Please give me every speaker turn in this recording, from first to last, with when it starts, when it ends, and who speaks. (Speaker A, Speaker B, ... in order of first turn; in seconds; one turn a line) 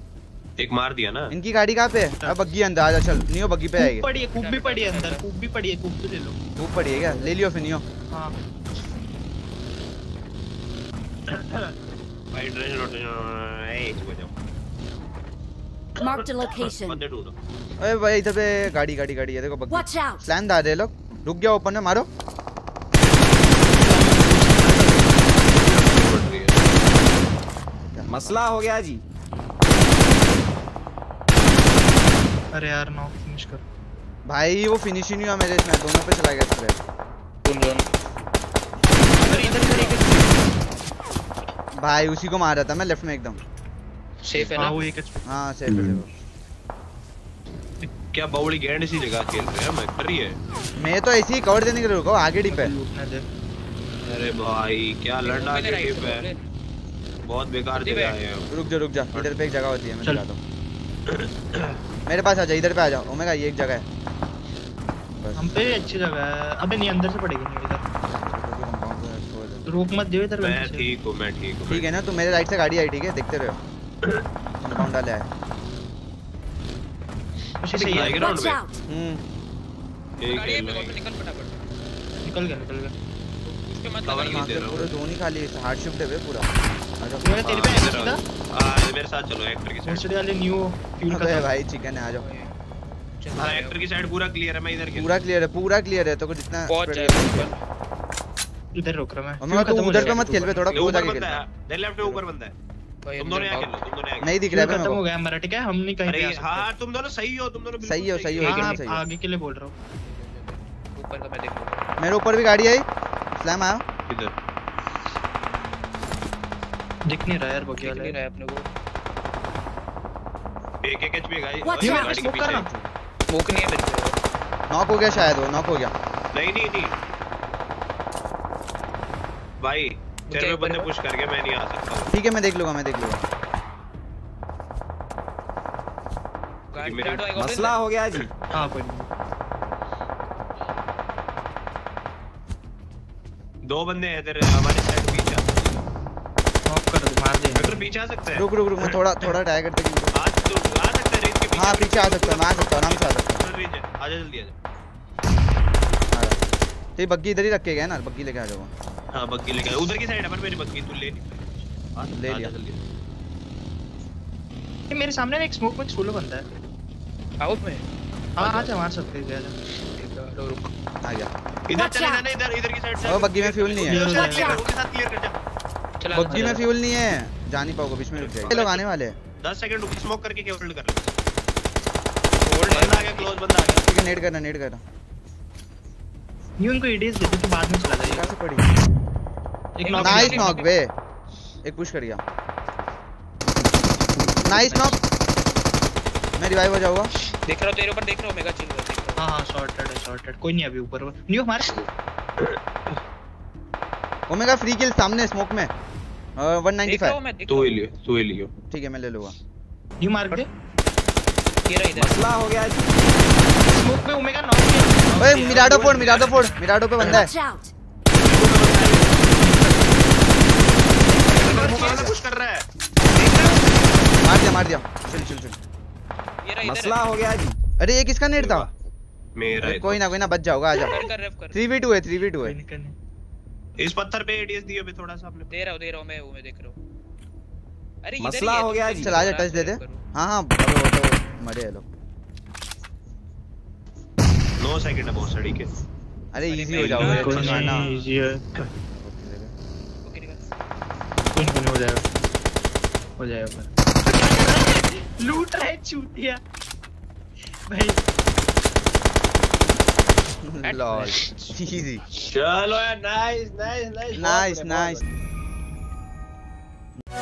Speaker A: 0.6-1.3
Speaker B: 1.3-4.1
Speaker C: 3.8-6.4
Speaker D: 4.3-5.2
Speaker B: 6.5-7.8
Speaker A: 11.3-11.7
Speaker A: 12.3-14.3
Speaker E: 16.0-17.0
Speaker A: 16.2-17.3
Speaker B: 17.8-22.1
Speaker E: 19.7-20.2
Speaker C: 23.7-25.3
Speaker A: 25.5-26.6
Speaker B: 27.9-28.5
Speaker F: 28.1-29.0
Speaker C: 32.5-33.6
Speaker B: 34.2-36.8
Speaker D: 37.4-37.9
Speaker C: 39.2-40.4
Speaker B: 41.8-43.4
Speaker D: 44.2-44.8
Speaker C: 44.6-45.2
Speaker B: 45.2-46.1
Speaker A: 45.7-46.0
Speaker A: 48.1-50.4
Speaker B: 50.8-52.7
Speaker C: 52.5-53.2
Speaker A: 54.0-56.3
Speaker D: 55.2-56.5
Speaker A: 57.2-58.5
Speaker D: 57.7-58.1
Speaker B: 58.5-60.4
Speaker A: 61.1-61.8
Speaker B: 62.0-63.8
Speaker B: 65.2-65.8
Speaker C: 65.3-67.8
Speaker B: 68.1-69.7
Speaker C: 69.7-70.9
Speaker A: 70.4-71.9
Speaker B: 71.7-73.6
Speaker B: 74.6-75.3
Speaker C: 77.6-78.3
Speaker A: 77.7-78.6
Speaker E: 78.0-78.7
Speaker B: 78.9-79.2
Speaker A: 80.2-81.0
Speaker D: 80.2-81.7
Speaker C: 82.2-82.9
Speaker D: 83.7-84.5
Speaker A: 84.0-84.9
Speaker B: 84.2-86.5
Speaker B: 87.0-87.3
Speaker C: 87.2-88.2
Speaker A: 87.4-90.1
Speaker C: 89.8-91.5
Speaker B: 91.1-92.2
Speaker D: 92.2-92.6
Speaker D: 93.2-93.8
Speaker A: 93.3-95.1
Speaker B: 94.9-97.5
Speaker D: 96.7-97.6
Speaker C: 98.7-100.8
Speaker B: 99.4-101.4
Speaker D: 99.9-101.2
Speaker A: 100.7-102.5
Speaker D: 103.0-103.7
Speaker A: 103.2-104.4
Speaker B: 104.2-105.0
Speaker C: 104.5-106.7
Speaker A: 106.0-108.7
Speaker B: 107.8-109.0
Speaker C: 108.4-109.7
Speaker D: 108.5-108.8
Speaker D: 110.0-111.8
Speaker B: 112.0-113.8
Speaker A: 114.1-114.3
Speaker C: 117.1-118.2
Speaker D: 117.8-118.7
Speaker A: 120.8-122.7
Speaker E: 121.6-122.2
Speaker C: 121.8-122.7
Speaker B: 122.5-122.9
Speaker D: 123.3-124.2
Speaker B: 124.7-125.9
Speaker C: 125.0-125.3
Speaker A: 126.3-127.0
Speaker A: 129.6-132.1
Speaker D: 130.3-130.9
Speaker B: 132.1-133.2
Speaker D: 136.7-137.8
Speaker A: 136.8-137.3
Speaker F: 137.3-138.3
Speaker C: 138.5-139.1
Speaker A: 143.6-145.8
Speaker C: 146.7-147.8
Speaker A: 147.5-148.9
Speaker B: 148.3-150.1
Speaker A: 150.1-154.5
Speaker B: 151.5-153.4
Speaker B: 156.1-156.4
Speaker B: 156.9-158.7
Speaker A: 159.1-162.8
Speaker B: 162.1-162.5
Speaker C: 164.9-166.5
Speaker D: 167.4-167.8
Speaker C: 168.4-169.5
Speaker D: 168.4-168.7
Speaker D: 169.8-170.7
Speaker B: 171.0-171.3
Speaker A: 171.7-175.3
Speaker E: 171.7-172.2
Speaker B: 173.0-174.1
Speaker C: 173.8-174.6
Speaker E: 174.0-174.6
Speaker D: 176.0-176.7
Speaker B: 176.1-179.2
Speaker A: 178.1-178.9
Speaker A: 179.4-181.1
Speaker D: 182.4-183.6
Speaker A: 182.7-183.9
Speaker B: 183.8-184.8
Speaker C: 186.6-188.3
Speaker B: 188.0-188.7
Speaker C: 189.8-190.6
Speaker D: 189.8-190.7
Speaker B: 190.0-190.9
Speaker B: 191.6-192.2
Speaker B: 194.4-195.0
Speaker C: 194.5-194.9
Speaker B: 196.4-197.1
Speaker D: 197.4-199.2
Speaker C: 199.2-201.8
Speaker B: 204.3-205.7
Speaker B: 206.4-207.2
Speaker D: 206.8-207.8
Speaker A: 207.5-208.5
Speaker B: 208.7-209.4
Speaker C: 210.0-210.5
Speaker D: 211.7-212.2
Speaker F: 211.9-212.9
Speaker C: 213.7-216.5
Speaker B: 215.2-217.3
Speaker A: 215.4-216.3
Speaker E: 217.1-217.7
Speaker A: 218.2-219.2
Speaker C: 219.4-219.9
Speaker D: 221.2-222.1
Speaker A: 221.3-222.7
Speaker C: 221.4-221.7
Speaker B: 221.6-222.2
Speaker C: 223.2-223.6
Speaker B: 224.2-225.6
Speaker D: 226.4-227.0
Speaker F: 226.6-227.6
Speaker B: 227.8-228.7
Speaker A: 228.4-228.7
Speaker A: 229.3-230.1
Speaker B: 229.6-232.6
Speaker D: 230.7-231.6
Speaker C: 232.4-232.9
Speaker A: 233.8-235.5
Speaker D: 235.5-236.8
Speaker D: 238.0-240.0
Speaker F: 238.2-239.2
Speaker B: 238.9-241.8
Speaker A: 244.6-245.7
Speaker B: 246.3-247.9
Speaker D: 246.4-248.1
Speaker A: 246.7-247.6
Speaker C: 246.8-248.4
Speaker B: 249.0-249.5
Speaker D: 250.0-250.4
Speaker C: 251.3-252.1
Speaker C: 253.2-256.4
Speaker C: 257.7-258.0
Speaker B: 260.4-262.1
Speaker D: 260.6-261.2
Speaker A: 262.2-265.1
Speaker B: 264.1-265.0